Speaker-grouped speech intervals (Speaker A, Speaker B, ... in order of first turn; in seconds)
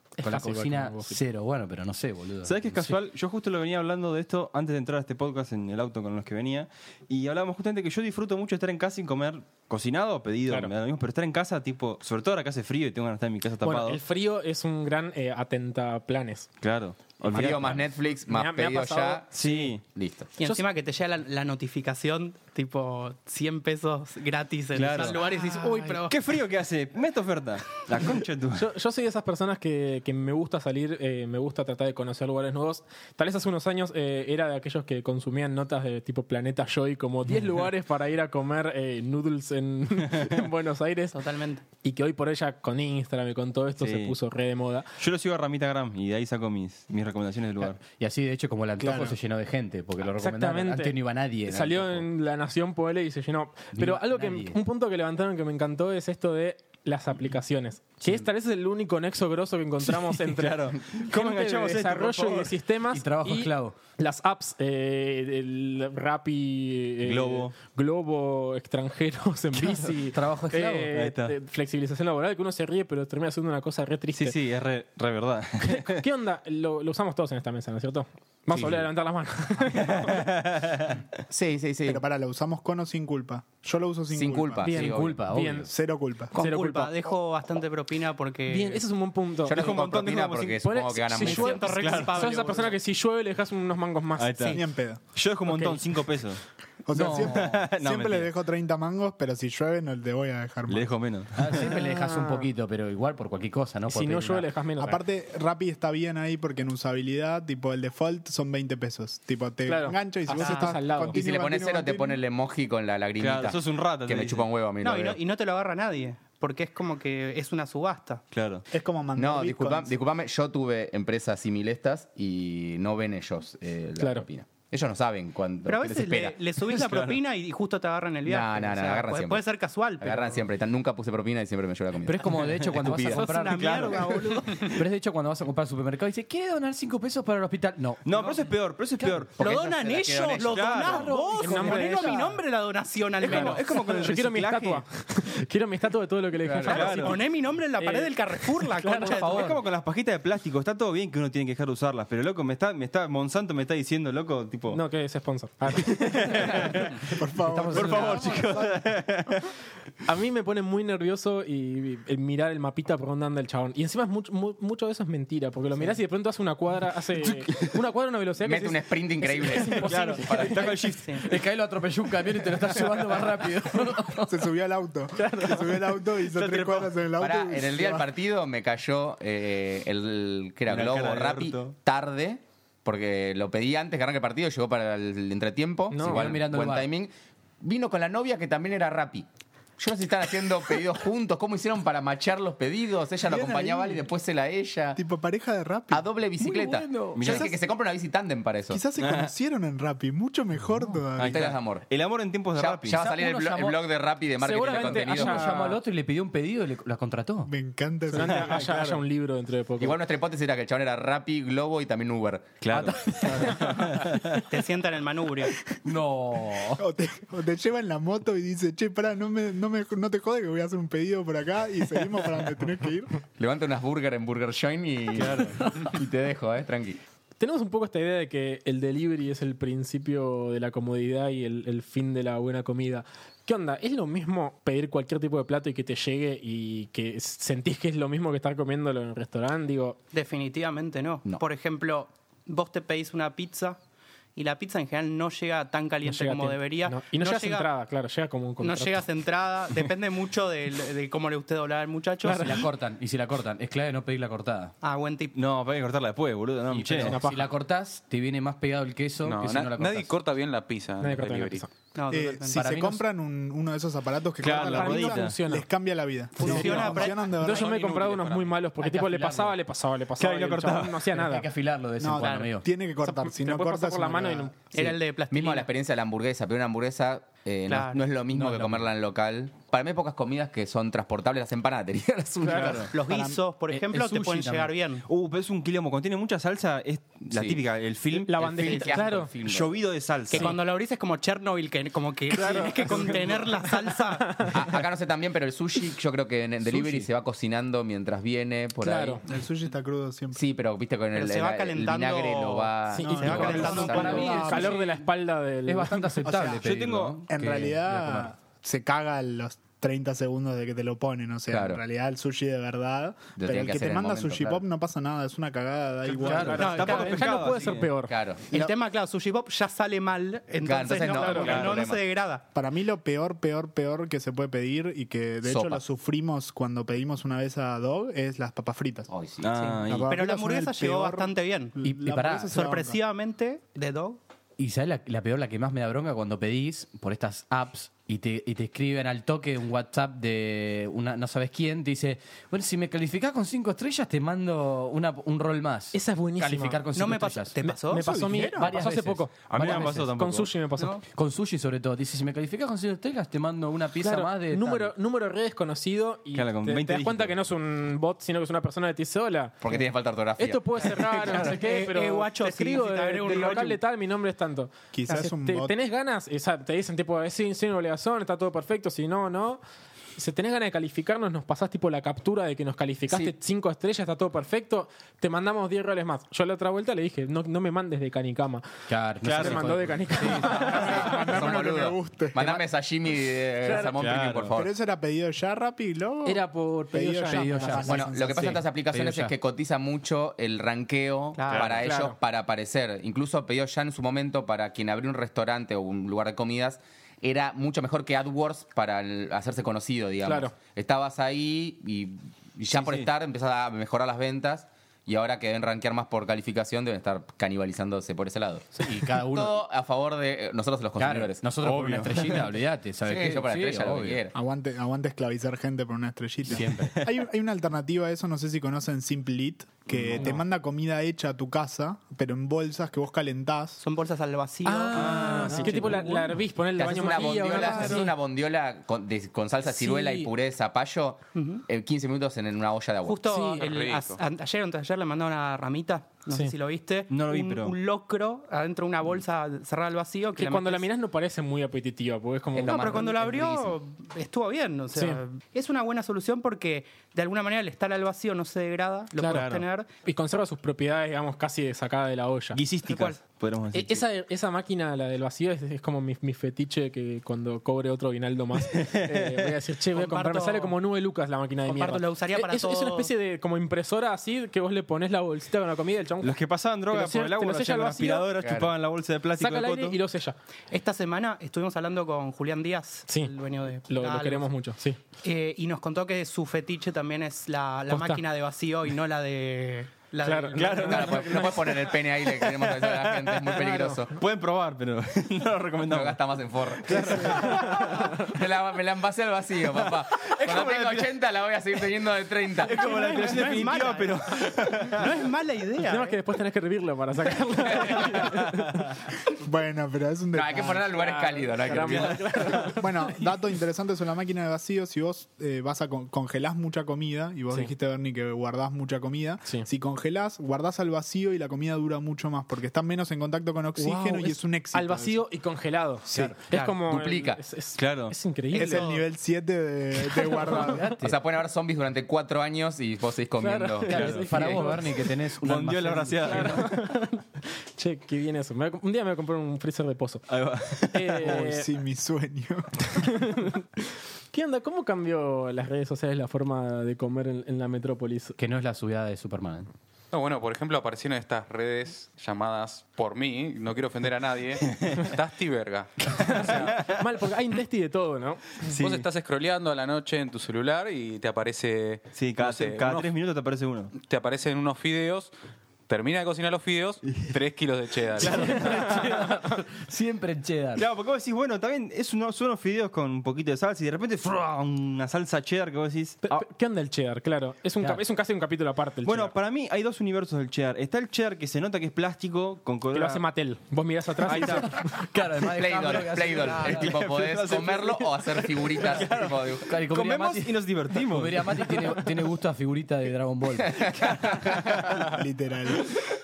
Speaker A: 0.2-1.2, 13.6-16.5, 18.2-19.7, 25.2-26.0, 28.5-41.2, 41.8-44.9, 50.1-74.4, 75.6-80.3, 84.6-85.7, 86.3-86.9, 88.5-89.8, 90.6-94.7, 95.4-95.8, 101.6-102.5, 103.9-105.0, 109.7-111.2, 124.0-124.2, 141.3-142.4, 143.2-147.2, 147.8-149.3, 154.7-156.9, 160.0-170.7, 175.2-175.8, 185.9-186.3, 204.4-205.8, 208.1-210.0, 227.4-240.0, 246.0-249.0, 252.2-252.6, 257.0-257.5, 261.0-261.7, 264.5-265.7, 266.4-271.5, 273.0-274.5, 288.1-289.3, 290.3-290.6, 292.3-294.6, 298.8-299.2, 302.9-306.4, 316.2-318.1, 321.1-321.5, 345.9-346.8, 347.6-351.0, 354.0-359.6, 360.4-369.6, 370.1-378.7, 379.3-381.2, 383.6-383.9, 386.2-388.0, 391.8-392.1, 400.2-400.5, 424.6-428.1, 429.6-430.3, 433.2-433.7, 440.4-443.0, 444.9-445.2, 449.1-449.5, 450.0-452.6, 453.7-466.4, 466.9-468.3, 469.4-470.4, 473.9-475.0, 477.9-478.2, 480.2-481.8, 483.5-484.0, 486.9-488.2, 495.9-498.9, 500.9-503.3, 513.8-518.9, 520.0-520.9, 523.4-525.0, 526.3-530.2, 530.9-531.7, 533.0-533.6, 534.3-538.4, 546.2-548.5, 566.2-569.3, 572.9-575.0
Speaker B: 0.2-3.0, 47.8-52.0, 53.7-54.6, 62.9-63.8, 69.5-70.9, 78.5-78.8, 84.7-85.7, 96.9-97.7, 101.3-104.5, 132.0-138.4, 139.0-139.3, 140.8-142.3, 149.0-149.6, 157.5-158.6, 171.2-174.5, 186.0-186.9, 196.4-197.4, 202.9-203.8, 204.6-207.5, 212.7-214.0, 215.8-216.8, 252.3-254.7, 256.7-260.1, 262.5-263.0, 268.8-269.6, 271.1-272.7, 278.3-278.9, 283.7-284.7, 296.7-297.1, 303.3-305.1, 305.6-308.3, 316.2-316.9, 331.8-332.6, 334.6-347.6, 348.5-350.1, 351.1-354.9, 378.9-381.1, 387.3-388.0, 388.9-389.3, 408.8-409.6, 411.0-414.2, 416.5-416.9, 520.4-521.1, 523.9-526.6, 538.4-539.7, 558.3-560.9, 574.3-577.0, 579.7-583.8
Speaker C: 2.4-14.0, 16.6-17.9, 19.3-19.8, 24.7-25.2, 26.1-28.7, 43.8-44.1, 45.0-47.8, 59.8-62.6, 67.0-67.5, 70.9-71.3, 74.1-76.0, 79.7-81.0, 89.5-90.6, 91.6-92.2, 94.2-96.4, 97.1-98.3, 100.7-101.7, 113.2-114.5, 118.3-118.6, 126.7-127.2, 132.4-132.7, 133.3-134.4, 138.0-139.4, 140.4-141.2, 143.2-144.8, 146.6-147.2, 149.2-154.8, 155.8-157.0, 157.7-159.5, 167.2-167.8, 169.8-171.1, 176.3-176.9, 180.7-181.7, 197.1-197.5, 199.0-199.3, 201.2-203.0, 208.2-209.0, 212.6-214.4, 225.1-225.6, 255.3-257.2, 264.4-265.4, 270.2-271.1, 282.5-282.9, 285.1-288.5, 289.4-290.6, 292.3-293.5, 306.6-307.2, 316.3-317.9, 321.4-321.8, 329.4-330.1, 349.5-350.5, 356.3-357.3, 379.2-379.8, 384.0-384.5, 391.5-391.8, 402.7-403.1, 411.6-412.4, 416.5-417.2, 424.9-426.3, 437.1-437.8, 449.3-449.6, 452.5-454.0, 458.6-459.6, 466.2-470.0, 480.5-486.2, 486.7-487.8, 489.7-491.1, 492.6-495.2, 498.4-498.8, 501.8-502.7, 517.8-518.1, 523.9-524.4, 525.4-526.9, 530.3-531.4, 546.5-546.9, 548.6-549.0, 552.1-553.9, 557.1-557.4, 558.2-559.1, 560.8-566.4, 569.0-573.2, 574.2-574.7, 576.5-582.0, 584.2-585.1
Speaker D: 17.2-20.3, 81.3-82.0, 84.1-85.2, 89.4-91.7, 111.1-115.2, 119.2-126.4, 128.2-129.4, 130.0-133.3, 139.4-141.1, 146.4-146.8, 168.4-170.8, 177.2-189.3, 189.8-195.0, 195.9-198.8, 201.2-201.9, 202.5-205.6, 209.8-212.6, 223.3-227.0, 274.8-282.9, 287.3-287.6, 288.3-289.7, 294.5-299.2, 300.3-304.5, 311.5-311.8, 313.4-314.6, 318.0-318.5, 320.6-322.0, 325.4-325.8, 329.1-329.8, 359.6-361.0, 380.5-384.7, 387.8-411.4, 413.0-414.3, 426.8-433.2, 442.5-443.7, 468.4-468.7, 480.9-484.1, 485.8-492.8, 497.8-498.2, 500.3-502.7, 516.8-517.4, 521.0-524.7, 575.4-579.7, 583.7-584.6
Speaker E: 20.4-26.2, 41.1-41.6, 86.3-88.8, 91.1-92.8, 110.3-110.9, 114.8-118.2, 125.7-130.4, 133.0-134.8, 139.4-143.8, 146.7-149.6, 171.0-171.2, 214.4-215.6, 240.1-243.8, 244.3-247.7, 248.6-252.7, 254.8-255.3, 261.9-262.7, 266.4-267.3, 272.2-272.5, 274.7-275.7, 277.7-278.1, 282.9-285.0, 288.6-289.0, 290.3-294.6, 301.1-304.6, 316.6-317.5, 318.5-322.4, 330.1-331.8, 332.5-334.2, 346.9-348.1, 361.1-363.8, 391.3-391.8, 423.8-426.0, 431.3-431.6, 433.0-440.9, 442.6-449.9, 452.9-453.2, 459.9-460.7, 461.6-463.1, 470.7-474.5, 475.2-481.3, 492.7-494.2, 494.8-496.2, 516.4-516.8, 518.5-519.0
Speaker F: 48.8-49.1, 81.8-84.7, 85.7-86.3, 94.5-95.0, 96.8-101.1, 104.8-112.2, 118.7-119.9, 157.2-158.4, 174.2-178.1, 193.2-194.1, 194.9-196.1, 198.7-201.6, 207.4-208.8, 216.8-223.2, 262.1-267.7, 272.0-274.7, 283.0-283.4, 299.2-300.4, 303.0-304.7, 306.2-306.7, 307.3-316.9, 322.5-329.1, 329.8-333.0, 347.9-348.8, 364.9-365.8, 380.5-382.6, 384.5-388.7, 414.3-423.8, 427.6-428.0, 499.4-500.9, 502.6-515.2, 518.5-521.0, 531.2-532.9, 585.0-585.9
Speaker G: 259.2-261.6, 267.4-268.5, 433.6-434.2, 540.1-546.8, 548.7-553.1, 554.0-555.3, 555.9-558.7